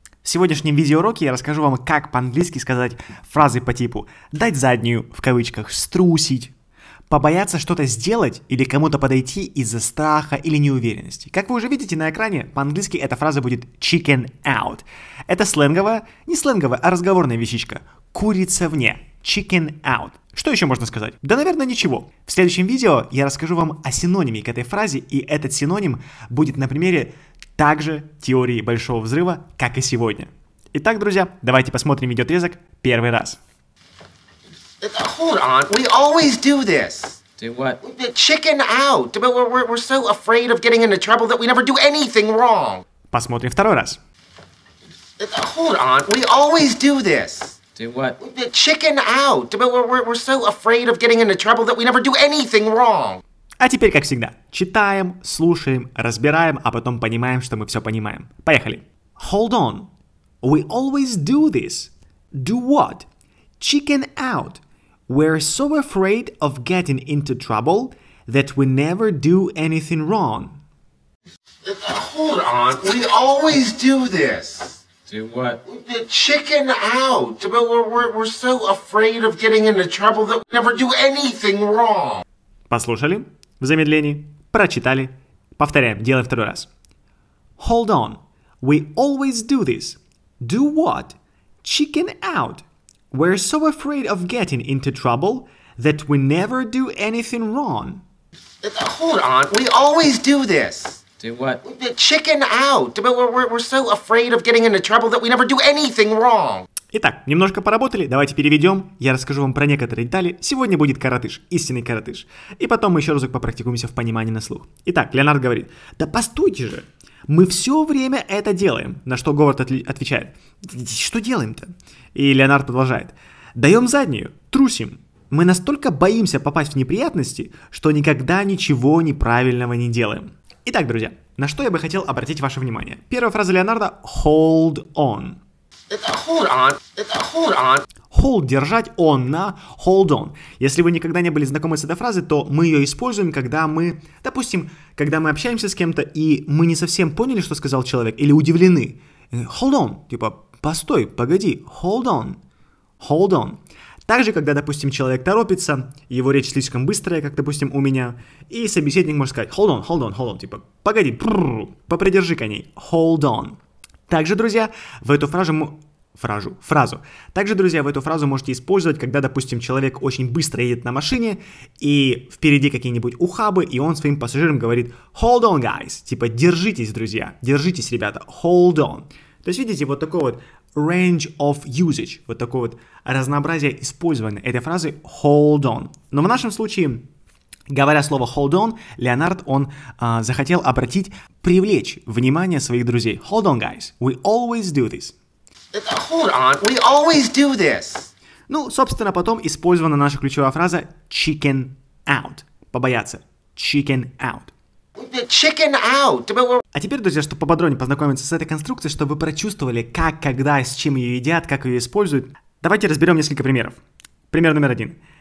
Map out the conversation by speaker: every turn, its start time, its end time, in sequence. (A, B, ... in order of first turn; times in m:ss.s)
0:00.2-0:06.5 A
0:07.1-0:33.4 A
0:34.8-0:37.3 B
0:37.4-0:37.8 C
0:37.8-0:42.8 B
0:43.1-0:44.0 A
0:45.2-0:47.6 B
0:47.8-0:48.2 C
0:48.2-0:53.2 B
0:53.6-0:59.9 A
1:00.4-1:03.1 A
1:03.6-1:10.6 A
1:11.6-1:14.8 B
1:15.1-1:15.6 C
1:15.6-1:22.2 B
1:22.7-1:26.7 A
1:27.6-1:38.0 A
1:38.6-1:46.7 B
1:41.2-1:41.6 C
1:46.9-2:15.4 A
2:15.9-2:17.8 B
2:18.1-2:32.4 A
2:33.0-3:07.0 A
3:07.7-3:15.2 A
3:15.7-3:18.1 B
3:18.5-3:24.5 A
3:25.0-3:26.6 B
3:26.7-3:33.8 A
3:34.3-3:35.0 A